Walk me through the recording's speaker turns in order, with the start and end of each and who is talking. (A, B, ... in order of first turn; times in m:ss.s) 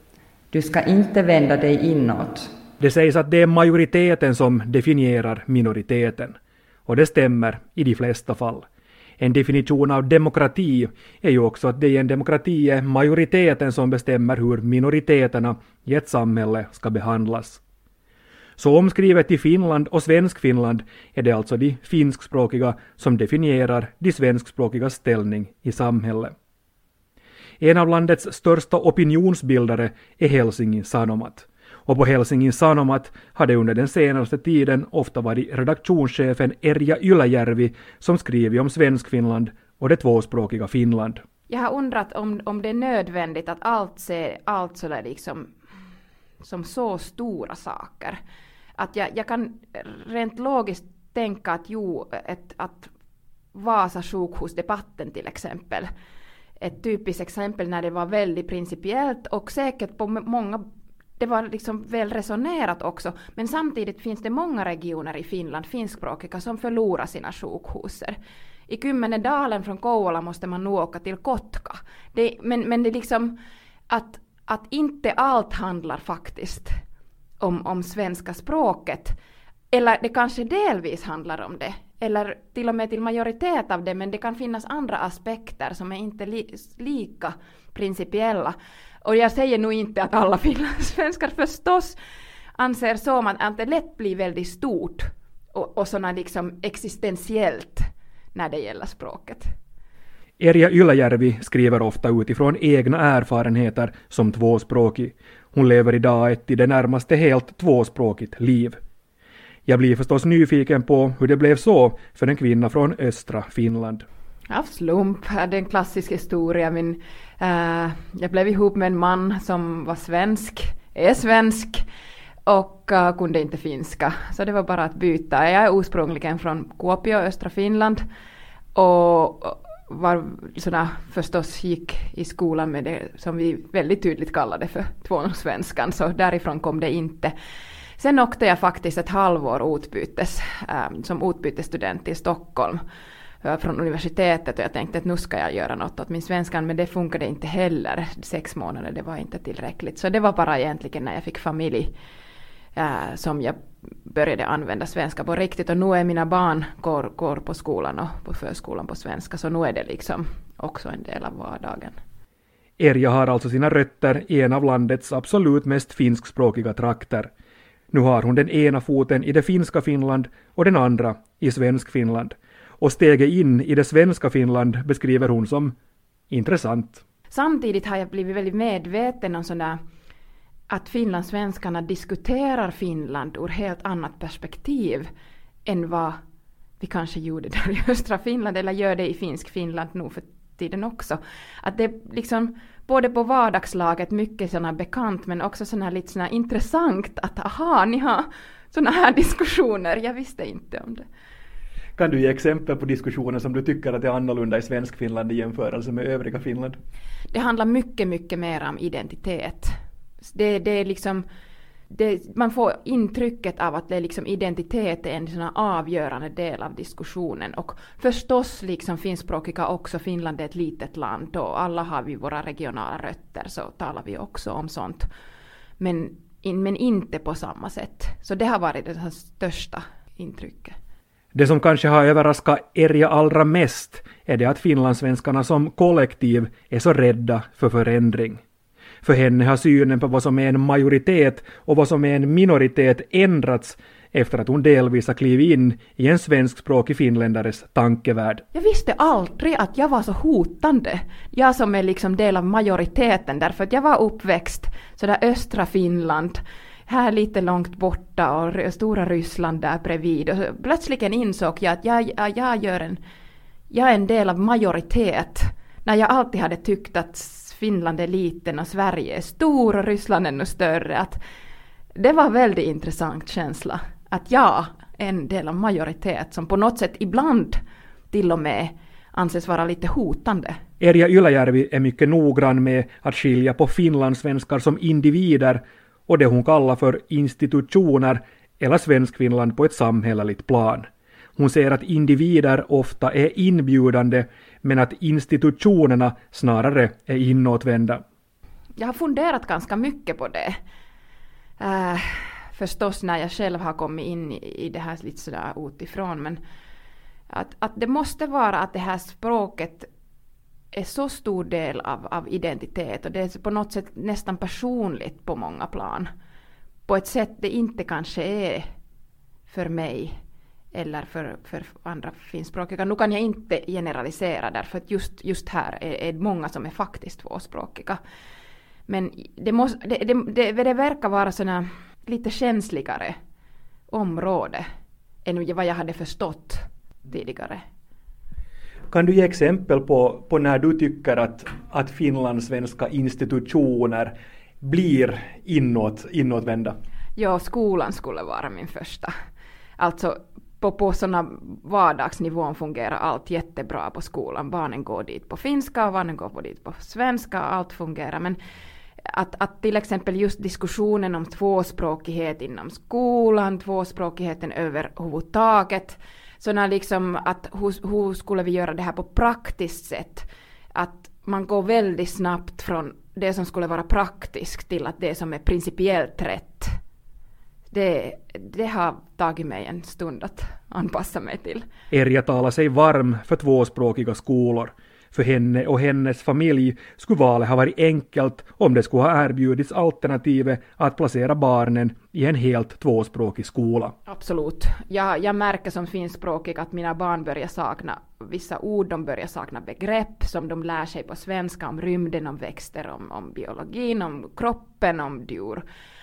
0:00.5-0:02.5 A
0:02.8-0:08.6 B
0:09.2-0:17.6 B
0:18.6-0:26.3 B
0:27.6-0:41.2 B
0:41.5-0:45.5 C
0:46.4-0:48.2 C
0:48.8-0:52.9 C
0:53.5-0:55.9 C
0:56.6-1:00.6 C
1:01.2-1:08.2 C
1:08.7-1:13.3 C
1:13.9-1:16.7 C
1:17.4-1:19.1 C
1:19.7-1:31.9 C
1:32.6-1:39.5 C
1:40.4-1:48.8 B
1:49.7-1:54.0 B
1:54.5-2:01.8 C
2:02.5-2:08.0 C
2:08.7-2:17.3 C
2:18.0-2:22.8 C
2:23.4-2:31.9 C
2:32.8-2:42.0 C
2:42.8-2:47.3 B
2:47.9-2:55.7 B
2:56.3-2:57.0 B
2:57.3-2:59.8 C
3:00.7-3:05.1 C
3:05.6-3:06.2 C
3:06.8-3:21.0 C
3:22.0-3:26.8 B
3:27.3-3:29.7 C
3:30.2-3:31.2 C
3:31.9-3:45.0 C
3:45.8-3:50.7 C
3:51.3-3:58.4 B
3:59.0-4:08.4 B
4:08.5-4:23.0 C
4:23.7-4:31.2 C
4:32.0-4:37.6 C
4:38.1-4:40.6 C
4:40.8-4:58.0 B
4:58.8-5:00.5 C
5:01.6-5:06.4 C
5:07.3-5:09.9 C
5:10.7-5:16.1 C
5:16.9-5:18.6 C
5:19.5-5:20.2 C
5:20.7-5:28.0 C
5:28.9-5:33.1 C
5:33.9-5:34.6 C
5:35.2-5:37.6 C
5:38.9-5:46.8 B
5:47.2-5:49.1 C
5:49.8-5:58.4 C
5:59.1-6:16.7 C
6:17.7-6:21.6 C
6:21.9-6:33.9 B
6:34.1-6:45.6 C